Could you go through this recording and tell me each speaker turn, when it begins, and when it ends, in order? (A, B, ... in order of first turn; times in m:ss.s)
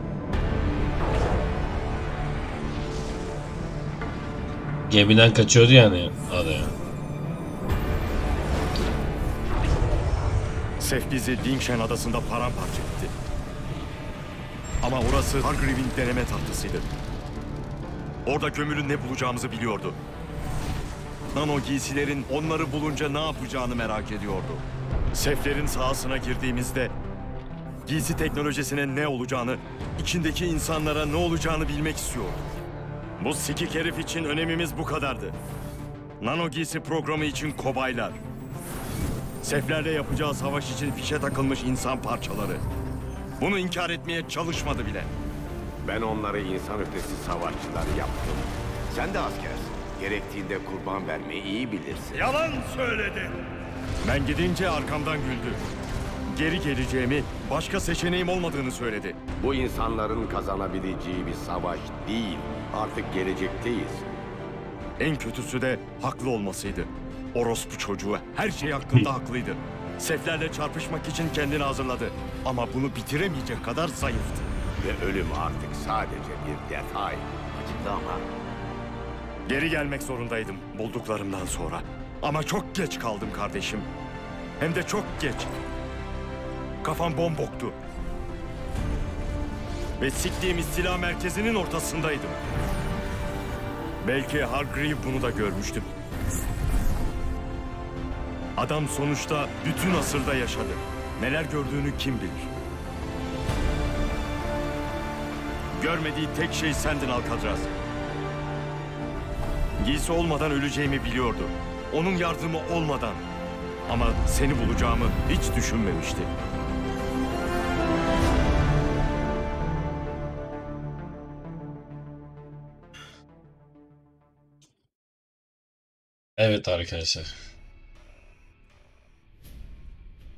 0:04.9-0:06.8 A
0:10.8-0:13.1 B
0:14.8-0:16.9 B
0:18.2-0:20.0 B
0:21.3-0:26.9 B
0:27.8-0:32.4 B
0:33.2-0:35.4 B
0:36.2-0:38.2 B
0:39.4-0:42.6 B
0:43.4-0:45.1 B
0:45.8-0:52.2 C
0:52.1-0:53.4 B
0:54.0-0:55.6 B
0:56.3-0:59.2 B
0:59.4-1:04.0 C
1:05.0-1:14.5 B
1:14.8-1:18.2 C
1:19.4-1:23.9 B
1:24.6-1:25.5 B
1:26.8-1:27.8 B
1:30.0-1:32.4 B
1:34.0-1:35.9 B
1:38.6-1:42.5 B
1:45.7-1:47.7 B
1:49.8-1:53.2 B
1:53.9-1:56.3 B
2:06.4-2:07.3 A